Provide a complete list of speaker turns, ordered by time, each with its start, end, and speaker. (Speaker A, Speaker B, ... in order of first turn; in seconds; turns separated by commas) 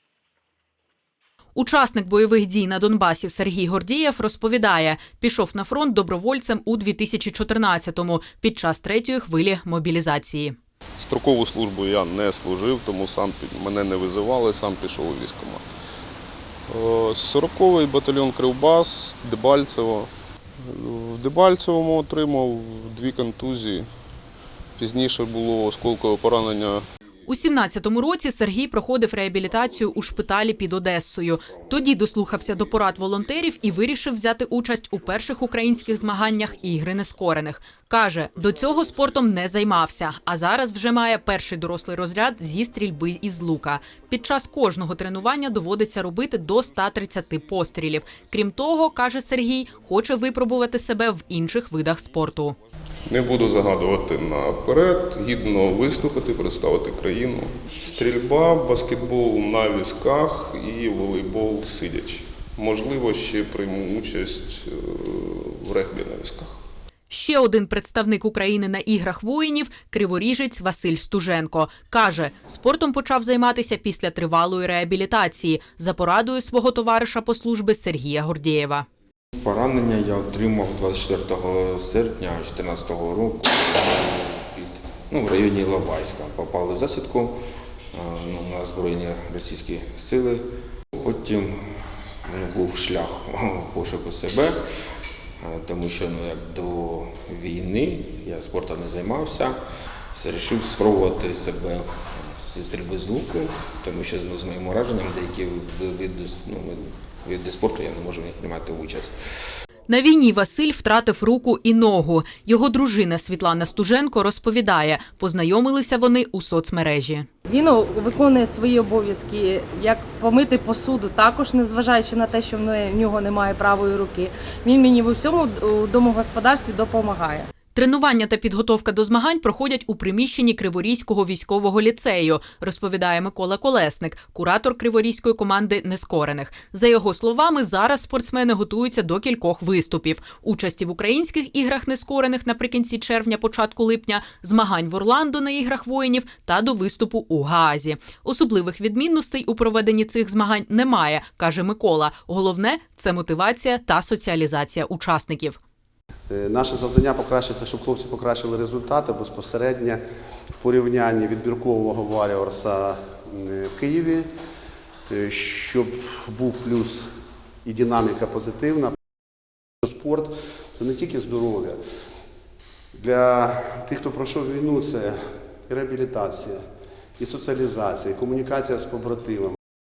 Speaker A: 1.5-10.6, Speaker B: 11.0-15.6, Speaker B: 16.7-20.1, Speaker B: 20.6-23.9, Speaker B: 24.8-26.8, Speaker A: 27.3-52.5, Speaker B: 53.1-66.5, Speaker A: 67.1-78.8, Speaker C: 79.4-87.4, Speaker C: 87.9-90.4, Speaker C: 91.0-94.5, Speaker C: 95.4-99.6, Speaker C: 100.1-109.1, Speaker A: 109.9-117.3, Speaker D: 117.5-127.5, Speaker A: 127.7-155.6, Speaker E: 156.3-160.0, Speaker E: 160.6-164.3, Speaker E: 165.1-167.1, Speaker E: 167.6-168.9, Speaker E: 169.8-171.8, Speaker E: 172.9-175.2, Speaker E: 175.7-176.6, Speaker E: 177.2-179.6